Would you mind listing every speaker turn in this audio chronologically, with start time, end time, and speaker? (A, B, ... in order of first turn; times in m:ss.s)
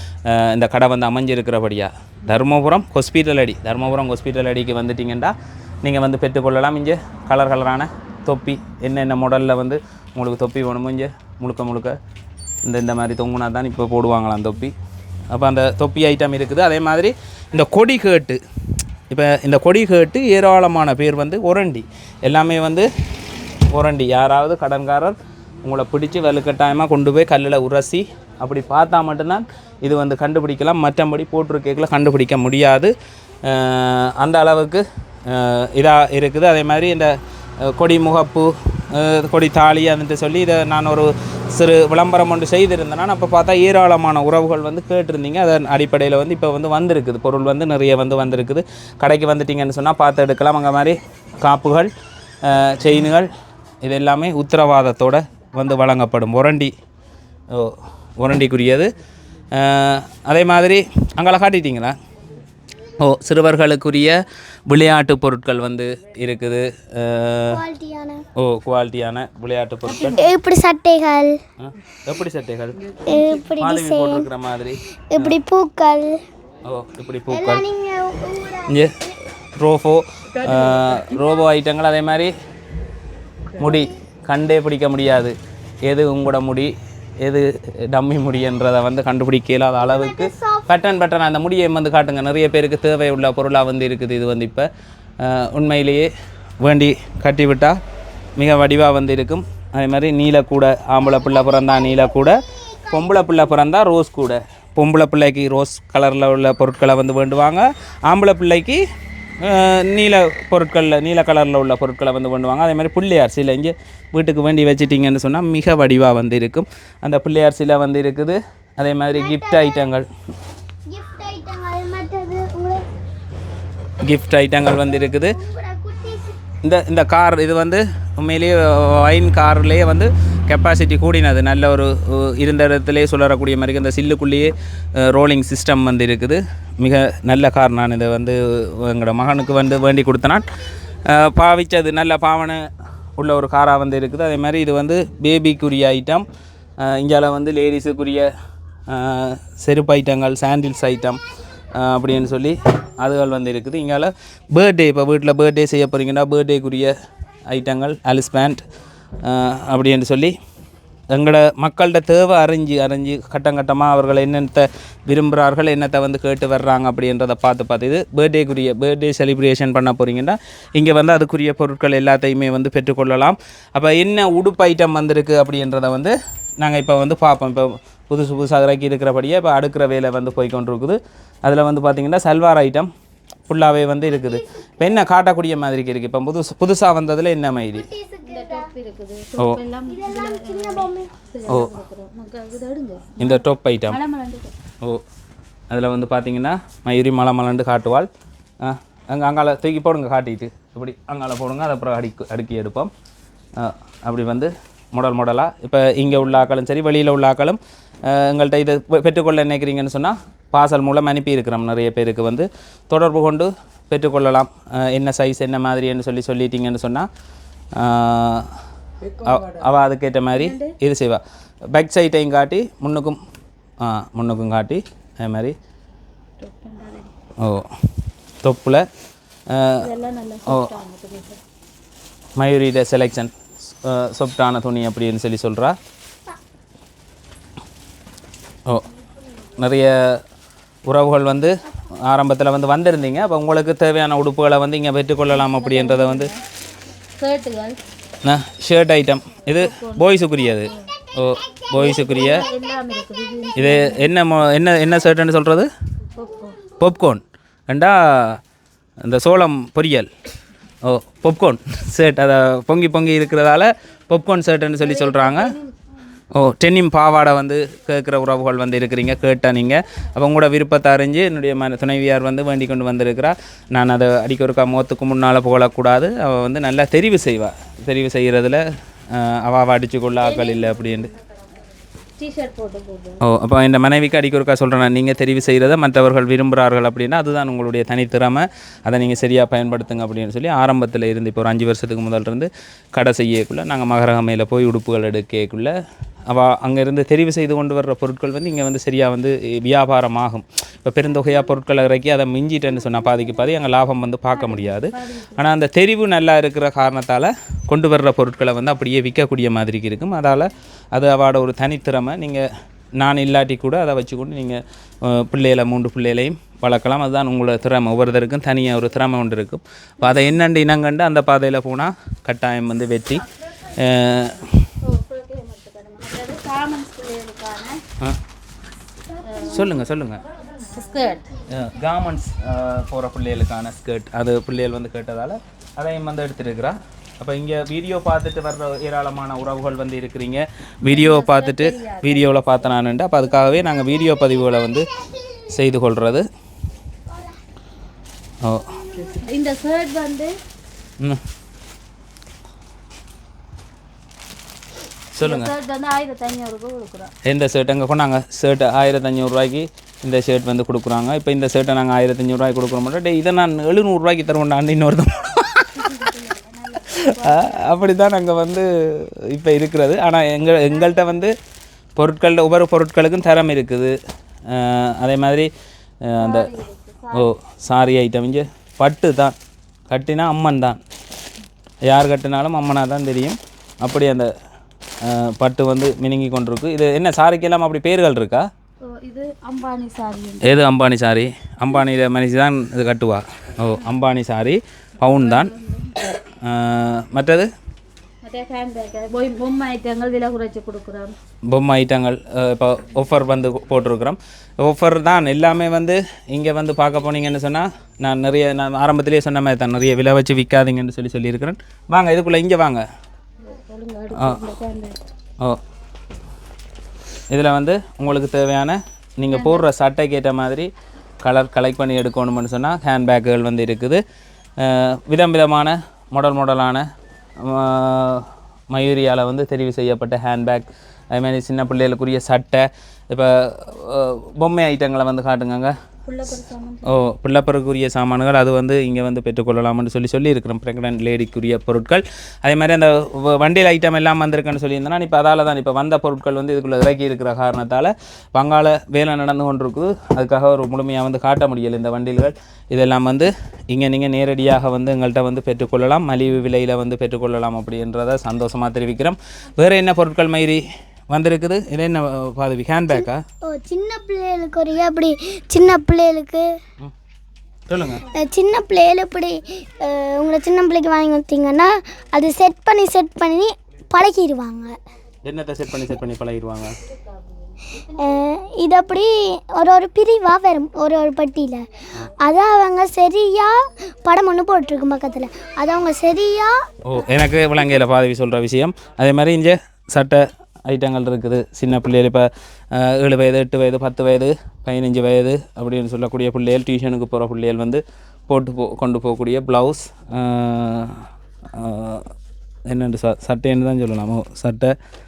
0:00.3-0:12.0 A
0:12.6-0:14.7 A
0:15.3-0:18.4 A
0:19.1-0:22.9 A
0:23.7-0:32.9 A
0:33.4-0:51.9 A
0:52.4-0:53.3 A
0:53.8-0:56.7 A
0:57.5-0:58.9 A
0:59.5-1:02.0 A
1:03.0-1:07.6 A
1:07.5-1:08.2 B
1:08.4-1:10.2 A
1:09.9-1:11.4 B
1:11.6-1:12.9 A
1:13.1-1:14.3 B
1:13.6-1:15.3 A
1:15.1-1:16.2 B
1:16.7-1:17.6 A
1:17.3-1:18.8 B
1:18.7-1:18.9 A
1:19.6-1:22.3 A
1:23.6-1:34.7 A
1:23.6-1:23.9 B
1:29.8-1:30.7 B
1:35.2-1:36.1 A
1:36.6-1:37.8 A
1:38.4-1:42.4 A
1:41.0-1:43.3 B
1:42.9-1:48.8 A
1:49.4-2:00.1 A
1:59.1-1:59.9 B
2:00.9-2:02.8 B
2:04.0-2:05.4 A
2:04.9-2:06.4 B
2:06.6-2:20.5 A
2:21.1-2:26.2 A
2:26.8-2:28.3 A
2:28.9-2:31.2 A
2:31.7-2:36.9 A
2:37.5-2:38.6 A
2:39.2-2:40.4 A
2:41.1-3:02.9 A
3:03.5-3:07.9 A
3:04.1-3:04.9 B
3:07.7-3:08.7 B
3:08.3-3:14.5 C
3:09.9-3:11.1 B
3:13.2-3:14.0 A
3:15.7-3:18.1 A
3:18.6-3:22.9 A
3:23.6-3:37.1 A
3:37.8-3:38.5 A
3:39.2-3:43.2 A
3:40.4-3:40.7 C
3:43.8-3:45.6 A
3:46.4-3:47.1 C
3:47.4-3:47.8 A
3:48.4-3:48.9 A
3:49.5-3:49.9 A
3:49.8-3:51.4 C
3:50.5-3:50.7 A
3:52.4-3:53.3 A
3:53.8-3:55.8 A
3:59.6-4:00.2 A
4:00.9-4:06.3 A
4:05.3-4:06.4 C
4:07.2-4:07.8 C
4:08.2-4:12.5 A
4:09.6-4:10.1 C
4:11.7-4:14.0 C
4:13.6-4:15.7 A
4:16.2-4:16.6 C
4:16.8-4:18.4 A
4:19.0-4:20.1 A
4:20.8-4:25.5 A
4:24.8-4:25.7 C
4:26.3-4:41.1 A
4:40.2-4:41.2 C
4:42.2-4:43.2 C
4:43.2-4:55.7 A
4:56.3-5:12.5 A
5:04.3-5:05.4 C
5:13.0-5:23.2 A
5:23.8-5:24.7 A
5:24.8-5:27.8 C
5:29.2-5:29.6 C
5:29.4-5:30.2 A
5:30.7-5:31.3 C
5:31.5-5:44.9 A
5:40.9-5:42.7 C
5:45.5-5:46.2 A
5:48.4-5:48.8 A
5:49.0-5:50.3 C
5:55.1-5:55.5 A
5:55.2-5:57.1 C
5:57.2-6:06.1 A
6:05.8-6:07.8 C
6:06.9-6:11.3 A
6:12.0-6:14.0 A
6:14.5-6:15.5 A
6:16.0-6:16.5 A
6:16.2-6:17.3 C
6:17.1-6:19.4 A
6:19.9-6:20.8 A
6:21.9-6:24.3 A
6:25.0-6:28.5 A
6:28.8-6:30.5 C
6:30.4-6:35.5 A
6:35.0-6:36.0 C
6:36.4-6:37.5 A
6:38.2-6:41.1 C
6:41.5-6:52.8 A
6:53.5-6:55.0 C
6:54.2-6:54.4 A
6:57.3-7:00.7 A
6:59.3-6:59.6 C
7:01.2-7:04.0 A
7:04.6-7:06.9 A
7:07.4-7:15.7 A
7:16.1-7:16.9 C
7:16.8-7:43.2 A
7:43.4-7:46.5 B
7:47.7-7:48.0 A
7:48.1-7:54.8 B
7:55.2-7:56.8 A
7:57.9-8:01.6 B
8:02.2-8:06.7 B
8:06.8-8:22.1 A
8:22.7-8:24.8 A